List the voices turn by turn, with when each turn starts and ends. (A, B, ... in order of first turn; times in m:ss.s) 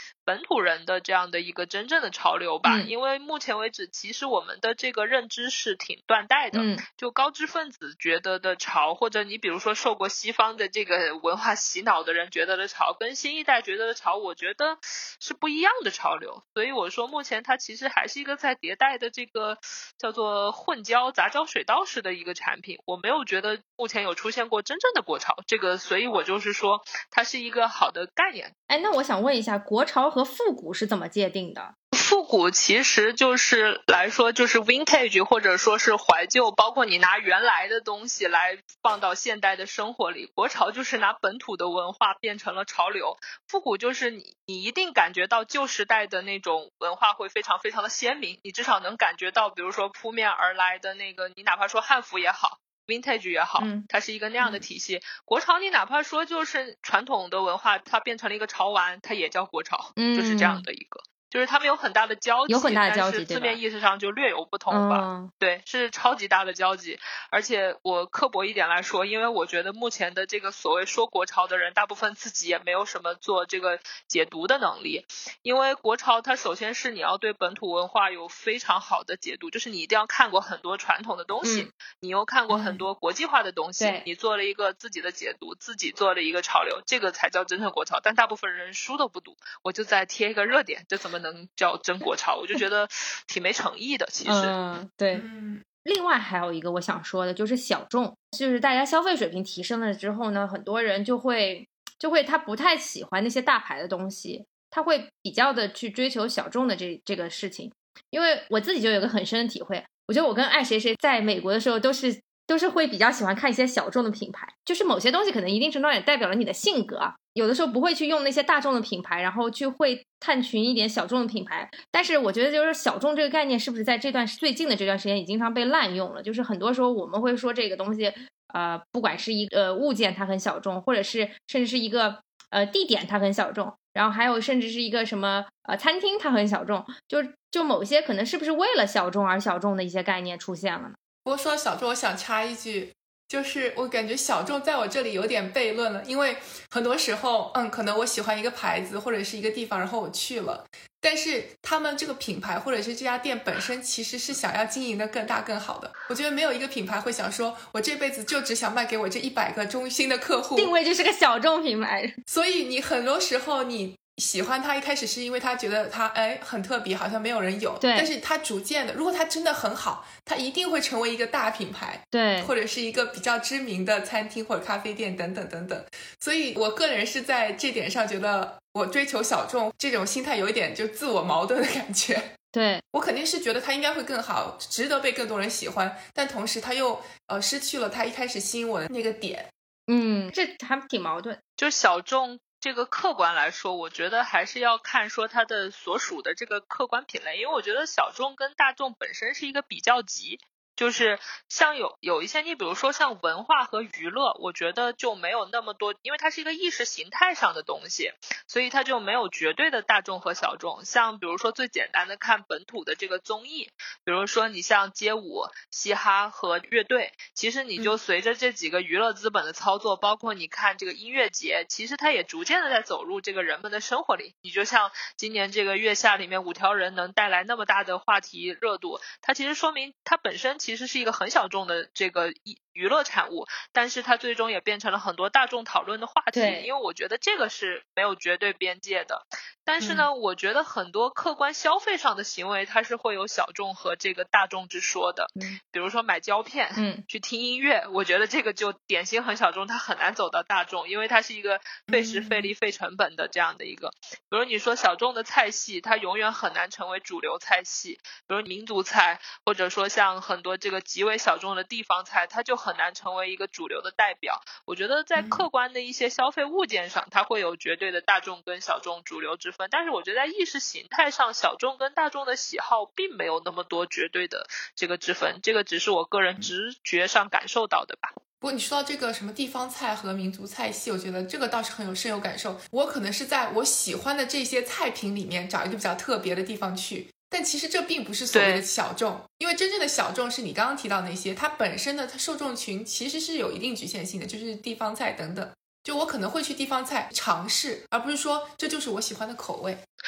0:00.2-0:28.5 A
0:02.6-0:02.9 B
0:06.5-0:06.8 B
0:28.7-0:31.7 B
0:31.9-1:34.5 A
0:53.6-0:53.8 B
1:00.0-1:00.6 B
1:02.5-1:03.6 B
1:04.7-1:05.3 B
1:22.5-1:22.8 C
1:34.2-1:35.2 B
1:35.1-1:35.6 C
1:35.8-2:21.0 B
2:21.2-2:40.7 C
2:40.6-2:42.2 B
2:42.3-3:02.3 C
2:47.8-2:48.1 B
2:52.1-2:52.5 B
3:02.5-3:02.8 B
3:02.9-3:09.5 C
3:09.9-3:11.4 B
3:11.6-4:38.1 A
3:56.3-3:56.7 B
3:59.8-4:00.1 C
4:06.8-4:07.0 B
4:11.9-4:12.5 C
4:25.2-4:25.4 C
4:38.4-4:59.8 C
4:48.3-4:48.6 A